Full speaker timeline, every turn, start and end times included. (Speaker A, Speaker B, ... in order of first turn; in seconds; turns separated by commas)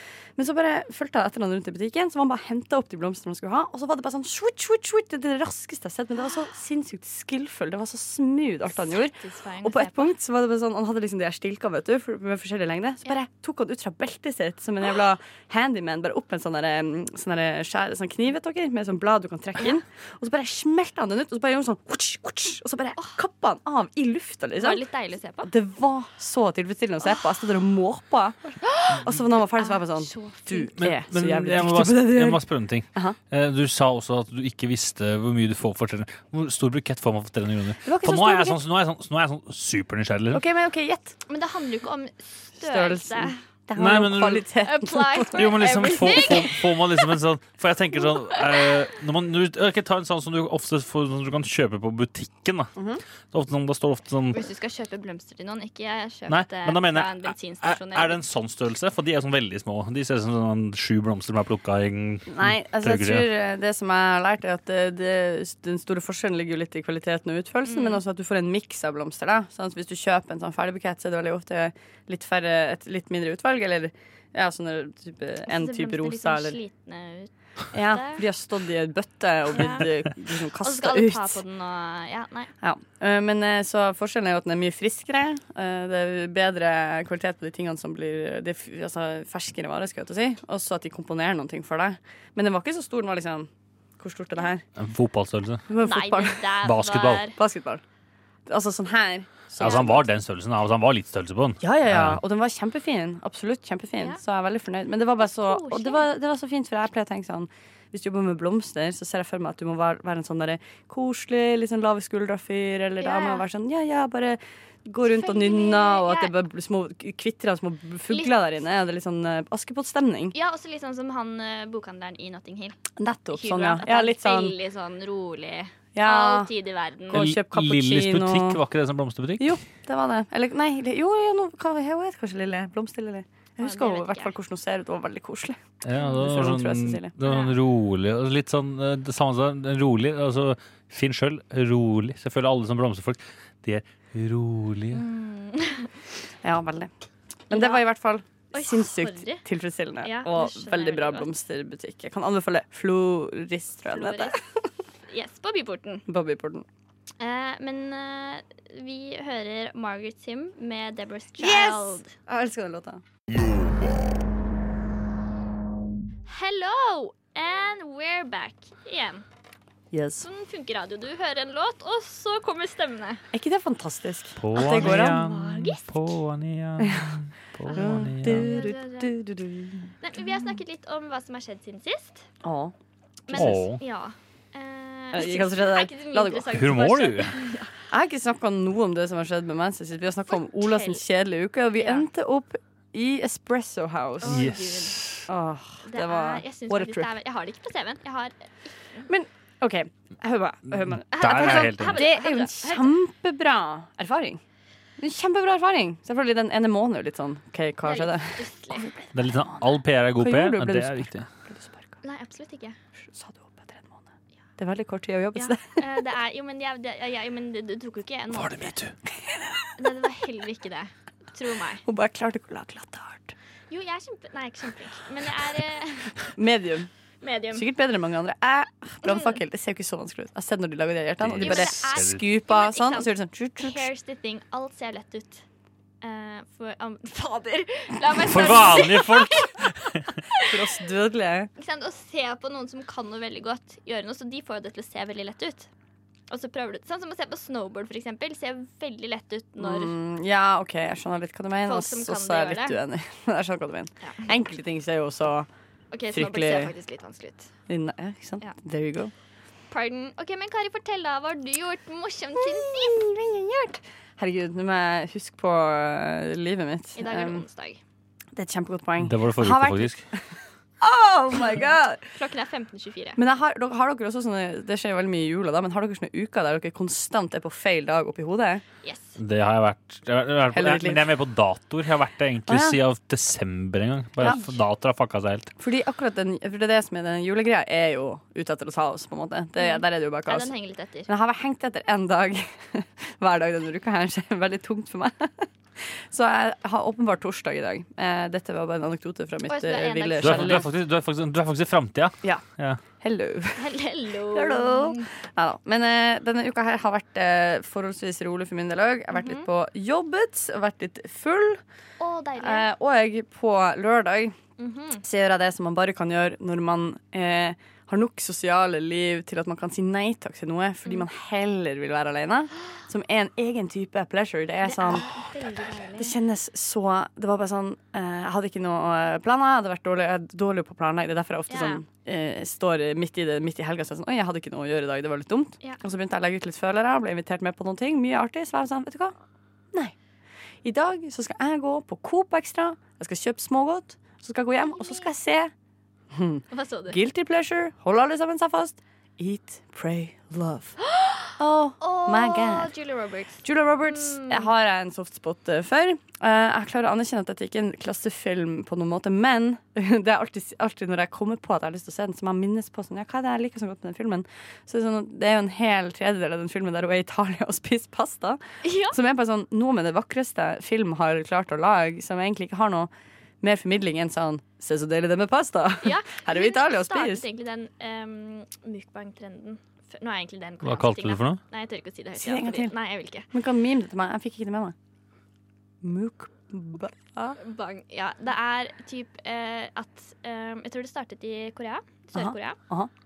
Speaker A: 0.4-24.8, Speaker B: 8.9-10.1, Speaker B: 24.6-25.5, Speaker A: 25.4-33.2, Speaker B: 28.6-30.7, Speaker C: 30.8-40.4, Speaker A: 37.8-38.6, Speaker A: 40.3-41.2, Speaker B: 41.3-43.4, Speaker A: 42.6-46.5, Speaker C: 43.8-44.5, Speaker B: 44.6-46.7, Speaker C: 45.3-52.7, Speaker B: 48.3-48.6, Speaker A: 52.8-53.0, Speaker C: 53.3-54.5, Speaker B: 54.3-58.2, Speaker C: 56.3-63.3, Speaker A: 62.3-76.6, Speaker B: 67.7-68.0, Speaker B: 75.5-78.2, Speaker A: 77.7-81.4, Speaker B: 79.5-79.9, Speaker B: 80.6-82.5, Speaker A: 82.6-94.6, Speaker C: 94.8-95.7, Speaker A: 95.7-96.5, Speaker B: 95.8-97.4, Speaker C: 96.6-97.2, Speaker A: 97.3-97.8, Speaker A: 98.5-100.1, Speaker C: 99.6-102.2, Speaker B: 99.6-100.0, Speaker A: 101.6-120.3, Speaker B: 105.2-106.0, Speaker B: 113.0-113.4, Speaker B: 115.0-116.3, Speaker B: 118.1-118.4, Speaker B: 120.3-122.8, Speaker A: 123.0-124.5, Speaker B: 123.3-127.2, Speaker A: 125.9-126.5, Speaker A: 127.1-128.6, Speaker C: 127.1-129.6, Speaker A: 129.4-137.1, Speaker B: 133.6-134.3, Speaker C: 135.8-145.0, Speaker B: 137.2-137.5, Speaker B: 144.9-145.9, Speaker A: 146.4-146.9, Speaker A: 147.5-154.4, Speaker B: 147.5-147.8, Speaker B: 148.5-149.4, Speaker B: 150.0-151.3, Speaker B: 153.8-154.4, Speaker B: 155.1-156.1, Speaker A: 156.1-156.6, Speaker B: 157.2-162.1, Speaker A: 161.4-163.0, Speaker B: 166.3-169.2, Speaker A: 169.9-170.2, Speaker B: 170.2-173.2, Speaker A: 173.3-175.7, Speaker C: 174.4-178.6, Speaker B: 174.5-176.0, Speaker A: 176.8-177.1, Speaker B: 177.6-179.2, Speaker A: 177.7-179.9, Speaker B: 180.0-182.3, Speaker A: 182.4-182.7, Speaker B: 183.3-187.7, Speaker A: 183.3-183.6, Speaker C: 183.3-183.8, Speaker A: 185.1-186.7, Speaker C: 186.5-187.4, Speaker A: 187.9-194.4, Speaker B: 190.3-191.0, Speaker B: 191.7-192.1, Speaker B: 194.2-195.0, Speaker C: 194.2-195.3, Speaker A: 195.3-197.1, Speaker B: 195.8-199.1, Speaker A: 199.1-204.4, Speaker B: 201.1-202.9, Speaker C: 201.1-202.0, Speaker A: 205.0-211.9, Speaker B: 207.8-208.9, Speaker C: 209.1-211.3, Speaker B: 212.0-212.8, Speaker A: 213.0-214.0, Speaker A: 214.6-215.9, Speaker B: 215.3-218.8, Speaker C: 218.3-218.9, Speaker B: 219.8-221.8, Speaker A: 221.8-223.3, Speaker B: 223.7-226.3, Speaker A: 226.3-226.9, Speaker B: 227.2-227.7, Speaker A: 227.5-233.9, Speaker C: 231.2-232.2, Speaker B: 231.4-235.4, Speaker B: 236.0-240.5, Speaker C: 238.2-240.2, Speaker A: 240.5-241.5, Speaker B: 241.6-245.7, Speaker B: 246.3-249.9, Speaker A: 249.6-255.5, Speaker B: 251.7-252.8, Speaker B: 255.9-257.5, Speaker A: 256.1-256.7, Speaker A: 257.7-259.1, Speaker B: 259.7-263.0, Speaker A: 262.4-267.4, Speaker B: 266.9-267.8, Speaker A: 268.3-270.2, Speaker C: 269.0-270.0, Speaker A: 270.8-272.1, Speaker B: 272.1-273.2, Speaker A: 273.2-278.6, Speaker B: 278.8-279.2, Speaker C: 279.2-285.5, Speaker A: 280.5-281.1, Speaker A: 282.5-282.8, Speaker B: 284.2-284.5, Speaker A: 285.6-290.5, Speaker B: 289.6-291.1, Speaker A: 291.1-300.7, Speaker B: 299.5-300.7, Speaker C: 300.2-302.8, Speaker A: 303.0-303.6, Speaker B: 303.5-305.1, Speaker A: 304.3-311.6, Speaker B: 309.1-309.5, Speaker B: 312.0-312.7, Speaker A: 312.4-314.4, Speaker B: 314.6-315.0, Speaker A: 315.0-325.3, Speaker B: 324.6-326.1, Speaker A: 325.9-339.1, Speaker B: 331.5-331.8, Speaker A: 340.6-345.5, Speaker B: 344.6-345.1, Speaker A: 346.1-350.8, Speaker B: 346.5-347.0, Speaker B: 350.8-354.5, Speaker A: 351.4-352.7, Speaker A: 353.4-377.2, Speaker B: 368.6-369.0, Speaker B: 375.8-383.3, Speaker C: 380.6-381.4, Speaker A: 382.2-382.7, Speaker A: 383.3-384.7, Speaker A: 385.8-387.4, Speaker B: 387.4-392.6, Speaker A: 392.1-392.9